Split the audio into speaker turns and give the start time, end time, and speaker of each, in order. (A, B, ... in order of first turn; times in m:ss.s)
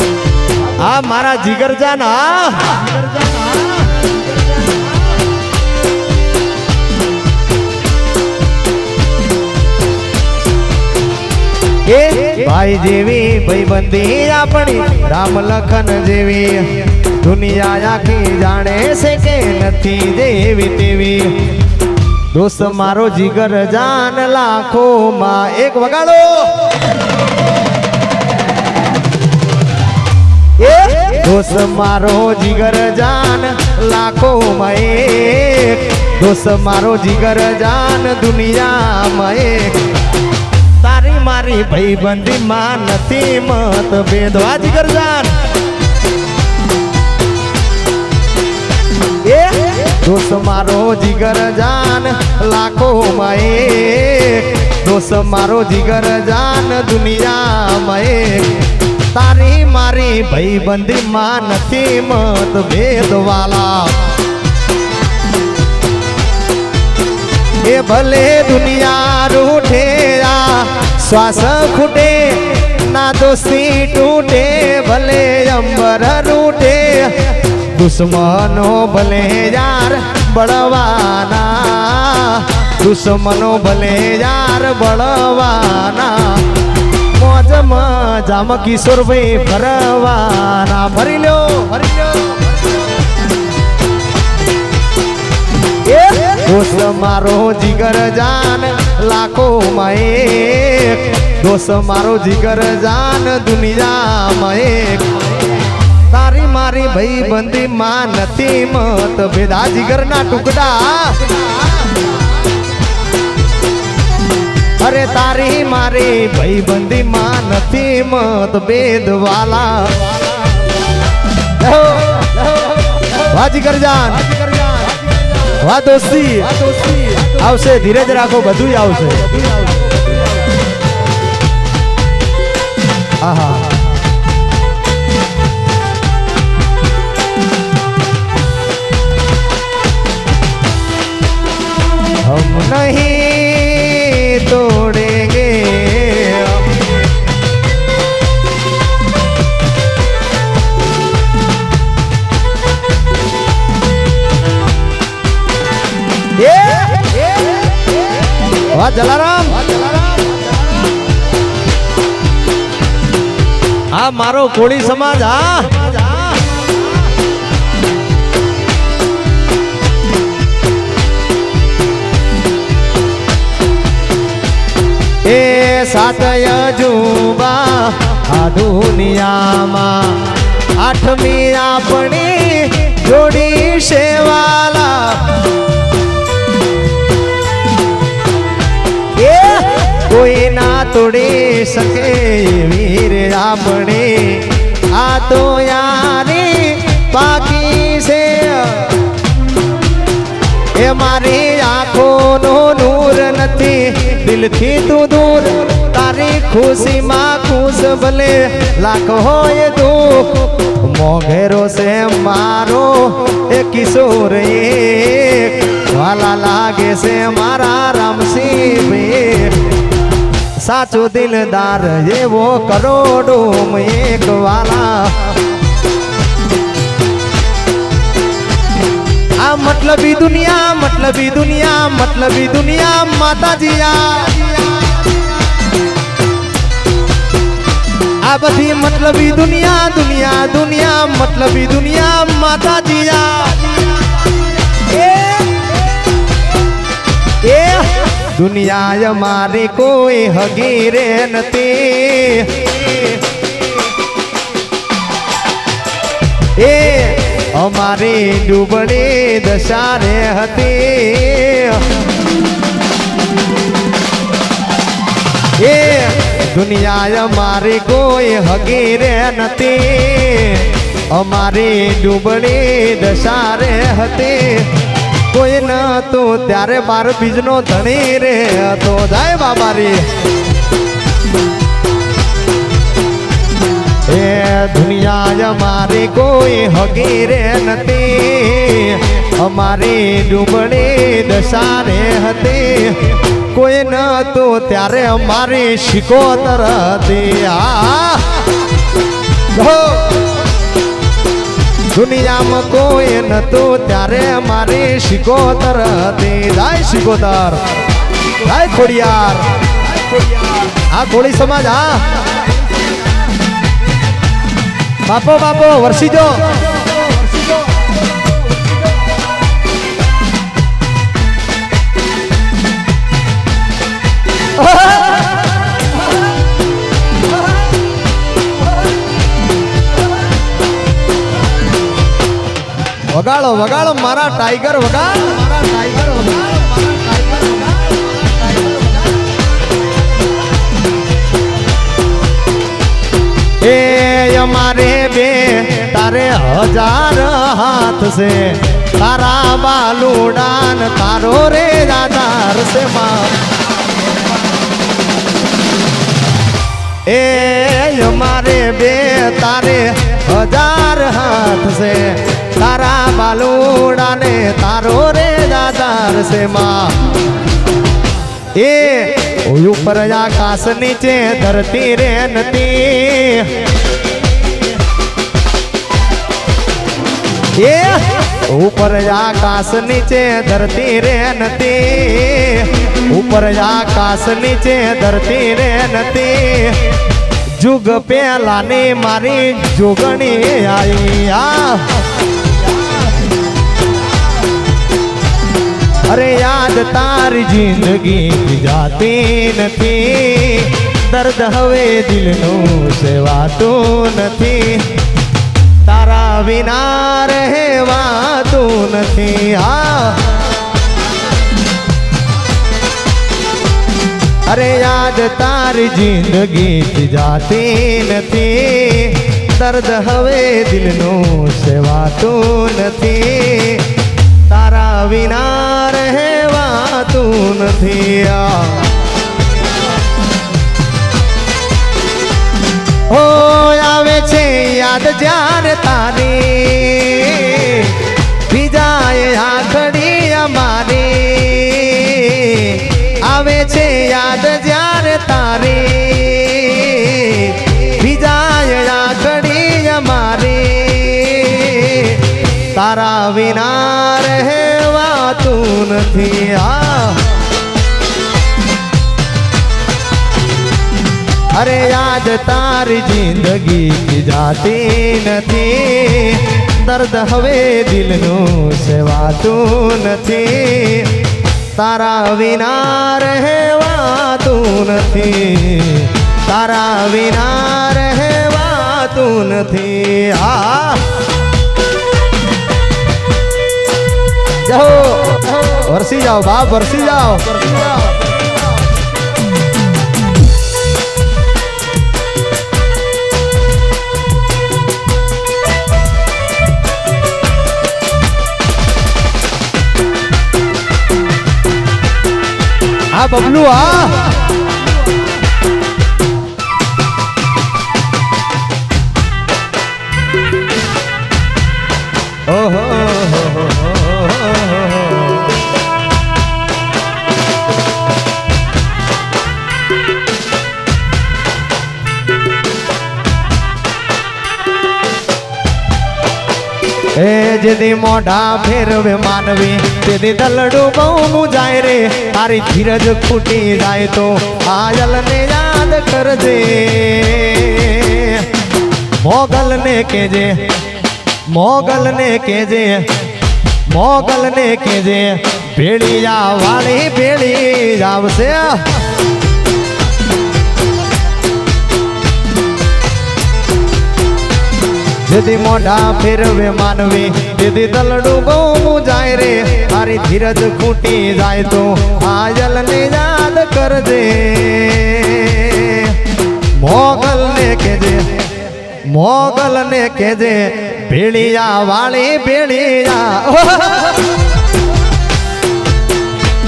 0:00.6-0:03.7 A
0:11.8-0:21.6 A
0:22.3-0:26.7 A
0:30.6-0:39.9 A
0:40.8-0:45.5 A
0:49.2-1:04.1 A
1:07.6-1:32.5 A
1:35.8-1:45.3 A
1:46.0-1:51.9 A
1:54.8-2:00.4 A
2:01.4-2:10.2 A
2:13.2-2:13.8 A
2:22.2-2:27.0 A
2:36.4-2:37.9 A
2:38.5-2:40.2 A
2:43.9-2:46.5 A
2:55.2-3:05.5 A
3:09.1-3:19.1 A
3:20.7-3:39.8 A
3:40.6-3:45.4 A
3:49.4-3:55.2 A
3:58.2-4:05.9 A
4:07.4-4:13.2 A
4:16.5-4:22.0 A
4:25.5-4:40.2 A
4:44.0-4:58.6 A
4:59.5-5:00.4 A
5:01.9-5:12.4 A
5:15.0-5:17.0 A
5:24.6-5:25.3 A
5:33.1-5:37.9 A
5:43.6-5:53.4 A
5:57.0-6:07.1 A
6:08.5-6:13.7 A
6:17.5-6:32.0 A
6:36.0-6:45.0 A
6:45.8-6:50.4 A
6:54.4-7:09.0 A
7:13.1-7:37.3 A
7:41.5-8:01.2 A
8:04.6-8:08.3 A
8:23.1-8:24.4 A
8:32.5-8:35.5 A
8:47.1-8:58.6 A
8:59.2-9:00.8 A
9:01.5-9:03.2 A
9:03.9-9:09.0 A
9:15.2-9:34.4 A